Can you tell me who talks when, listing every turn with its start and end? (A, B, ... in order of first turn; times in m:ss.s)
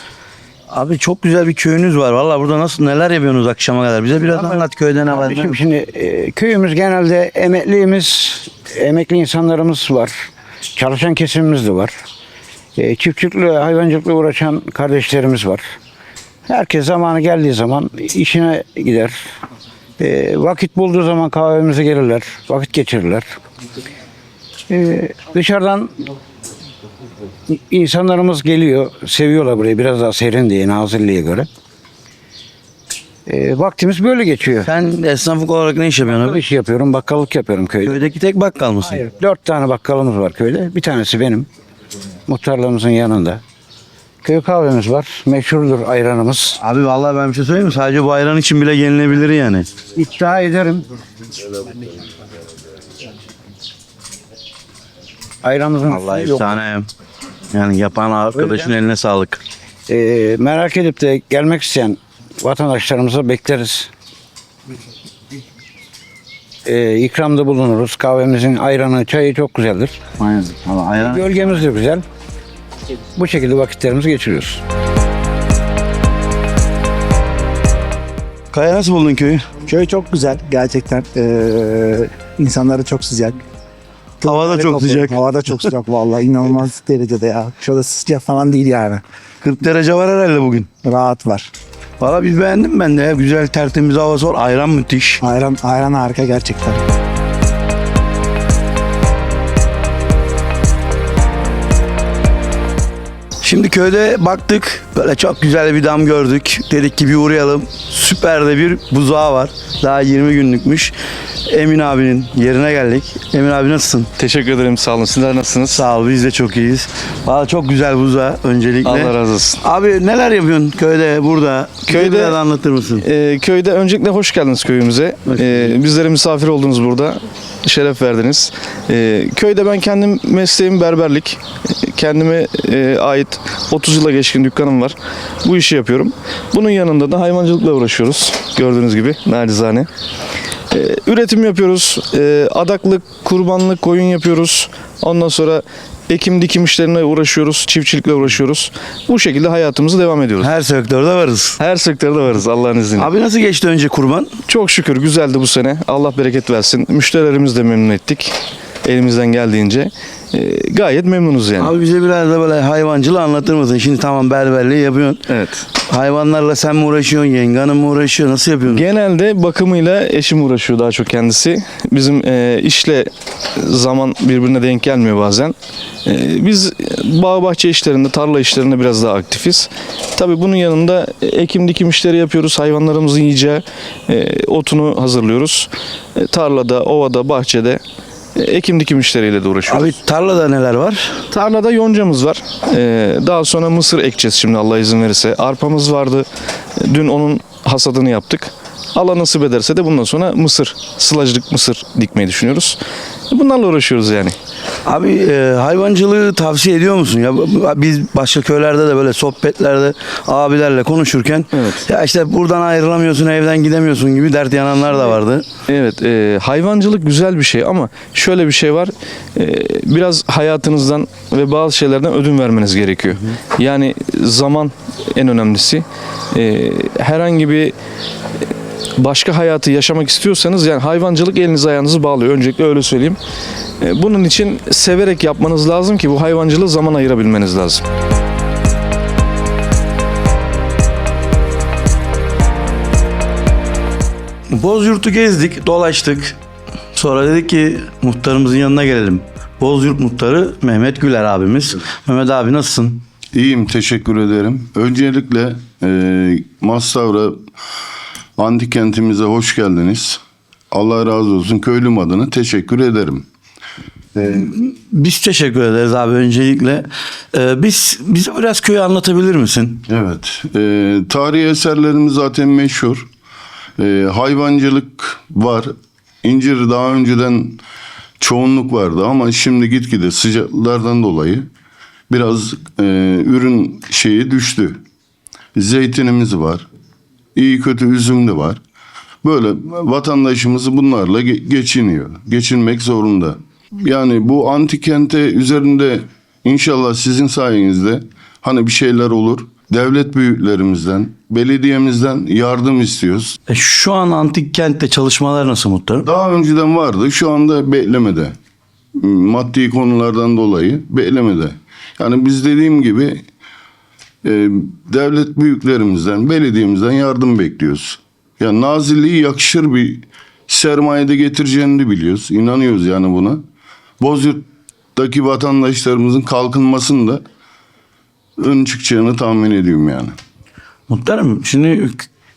0:00.7-0:05.6 A
0:04.3-0:10.1 B
0:10.8-0:11.9 B
0:12.8-0:15.6 B
0:16.5-0:19.2 B
0:20.0-0:23.3 B
0:24.7-0:25.9 B
0:27.5-0:31.5 B
0:33.3-0:34.7 B
0:34.6-0:36.4 A
0:36.2-0:38.0 B
0:37.8-0:39.0 A
0:39.0-0:41.5 B
0:42.3-0:43.4 B
0:44.2-0:46.6 B
0:46.6-0:49.7 A
0:49.9-0:50.8 B
0:55.4-0:56.5 B
0:55.9-0:56.9 A
0:57.5-0:59.4 A
0:58.3-0:58.7 B
0:59.9-1:03.9 B
1:06.6-1:10.0 B
1:10.2-1:11.3 A
1:11.0-1:12.0 B
1:13.1-1:14.6 B
1:18.5-1:19.4 A
1:19.6-1:23.4 C
1:24.2-1:25.7 A
1:24.2-1:29.0 C
1:29.4-1:30.7 A
1:30.8-1:31.5 C
1:32.0-1:35.2 A
1:35.2-1:36.8 C
1:43.4-1:50.9 A
1:51.5-1:54.1 A
1:54.2-1:55.8 D
1:55.7-2:03.0 A
1:58.8-1:59.6 D
2:01.9-2:02.4 D
2:03.0-2:19.9 D
2:05.2-2:05.7 A
2:20.7-2:30.5 D
2:30.4-2:31.6 A
2:31.6-2:33.1 D
2:33.0-2:34.3 A
2:34.5-2:38.3 D
2:38.8-2:41.7 D
2:41.6-2:45.2 A
2:45.3-2:45.6 D
2:45.8-2:48.8 A
2:48.7-3:07.8 D
3:08.4-3:09.9 D
3:09.7-3:11.2 A
3:11.3-3:16.2 D
3:16.8-3:22.8 D
3:23.3-3:24.4 D
3:24.8-3:35.5 A
3:31.5-3:31.8 D
3:35.7-3:47.7 D
3:49.0-3:53.2 D
3:53.8-3:57.8 D
4:04.5-4:06.4 A
4:06.9-4:13.0 A
4:13.3-4:17.4 E
4:18.4-4:20.2 E
4:20.7-4:23.2 E
4:24.2-4:29.9 A
4:29.9-4:33.0 E
4:33.8-4:35.7 E
4:36.2-4:37.6 E
4:38.2-4:41.5 E
4:42.1-4:44.8 E
4:45.6-4:46.6 E
4:47.3-4:48.6 E
4:49.2-5:03.4 E
5:03.5-5:06.1 A
5:06.0-5:08.3 E
5:09.0-5:13.2 E
5:14.2-5:23.4 E
5:24.0-5:27.2 E
5:28.4-5:30.1 E
5:30.9-5:32.0 A